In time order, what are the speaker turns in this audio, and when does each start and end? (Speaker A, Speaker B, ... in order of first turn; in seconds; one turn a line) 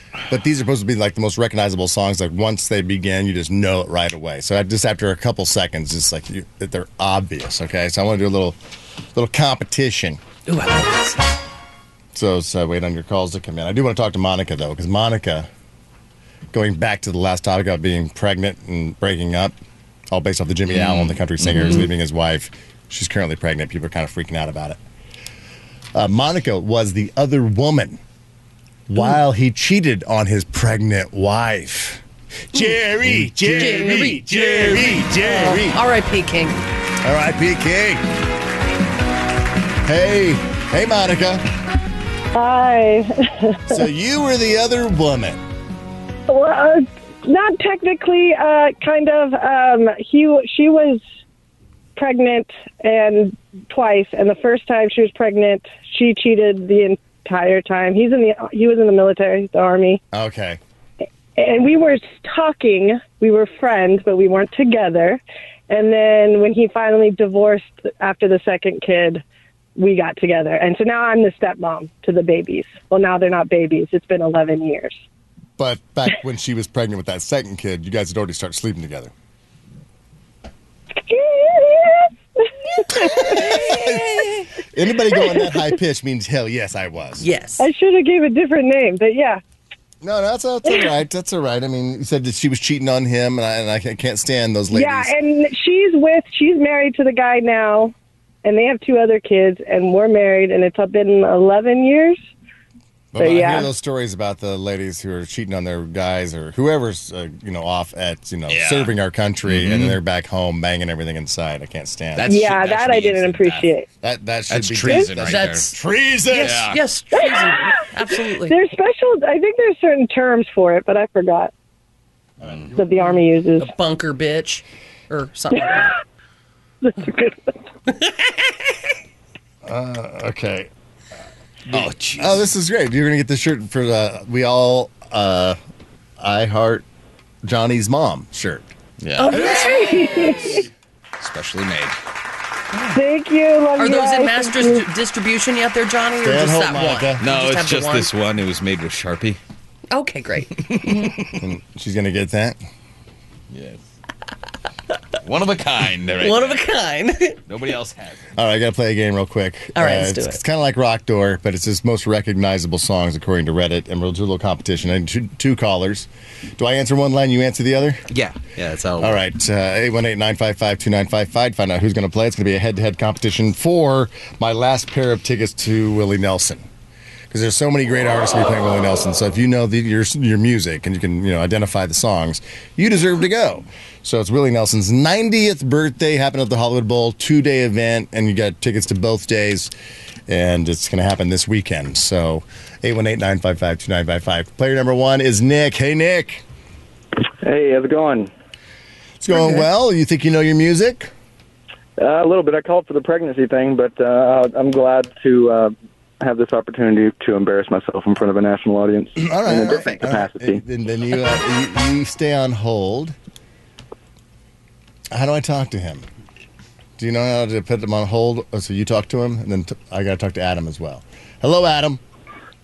Speaker A: 0.3-8.6
Speaker A: 9.1-10.2
Speaker B: 10.4-11.2
Speaker A: 12.1-15.5
Speaker A: 16.5-19.6
Speaker A: 20.1-24.8
Speaker C: 20.7-21.9
Speaker A: 25.9-28.0
Speaker A: 28.9-35.8
Speaker B: 33.4-36.6
Speaker A: 37.0-38.0
Speaker A: 39.8-41.4
Speaker D: 42.3-43.8
Speaker A: 43.7-45.4
Speaker D: 46.3-51.0
Speaker D: 52.0-60.0
Speaker A: 60.1-60.6
Speaker D: 61.4-69.2
Speaker D: 69.7-74.9
Speaker A: 75.6-79.1
Speaker D: 81.0-84.2
Speaker A: 83.0-87.2
Speaker B: 87.2-87.7
Speaker D: 87.6-89.4
Speaker A: 90.0-95.1
Speaker D: 90.6-90.9
Speaker D: 94.7-102.2
Speaker A: 103.1-112.4
Speaker D: 103.2-103.7
Speaker C: 108.5-108.9
Speaker C: 109.4-110.0
Speaker C: 112.2-113.7
Speaker D: 112.3-113.9
Speaker A: 114.0-116.7
Speaker C: 114.5-115.7
Speaker B: 115.2-118.5
Speaker C: 116.4-116.8
Speaker D: 117.1-117.8
Speaker D: 118.5-121.5
Speaker A: 122.4-122.7
Speaker D: 122.7-123.7
Speaker B: 123.0-126.0
Speaker D: 126.8-127.5
Speaker B: 128.0-128.3
Speaker A: 129.7-130.7
Speaker C: 131.7-132.4
Speaker A: 131.7-135.6
Speaker A: 136.2-136.8
Speaker A: 137.4-138.7
Speaker C: 139.0-139.6
Speaker B: 139.2-139.9
Speaker D: 139.3-140.7
Speaker C: 141.2-142.0
Speaker B: 142.7-143.0
Speaker D: 142.9-144.9
Speaker B: 143.8-148.1
Speaker A: 146.2-147.2
Speaker C: 147.2-149.4
Speaker B: 149.9-150.9
Speaker C: 150.7-151.3
Speaker A: 151.3-152.6
Speaker C: 153.5-153.8
Speaker C: 155.2-156.7
Speaker B: 156.2-157.4
Speaker C: 157.4-158.2
Speaker A: 158.3-168.0
Speaker B: 159.7-160.4
Speaker C: 168.1-169.2
Speaker A: 169.0-176.7
Speaker A: 177.3-189.7
Speaker A: 190.3-196.4
Speaker E: 197.4-198.3
Speaker A: 199.2-201.1
Speaker E: 202.0-210.6
Speaker A: 209.2-213.2
Speaker A: 215.1-216.0
Speaker A: 217.0-222.0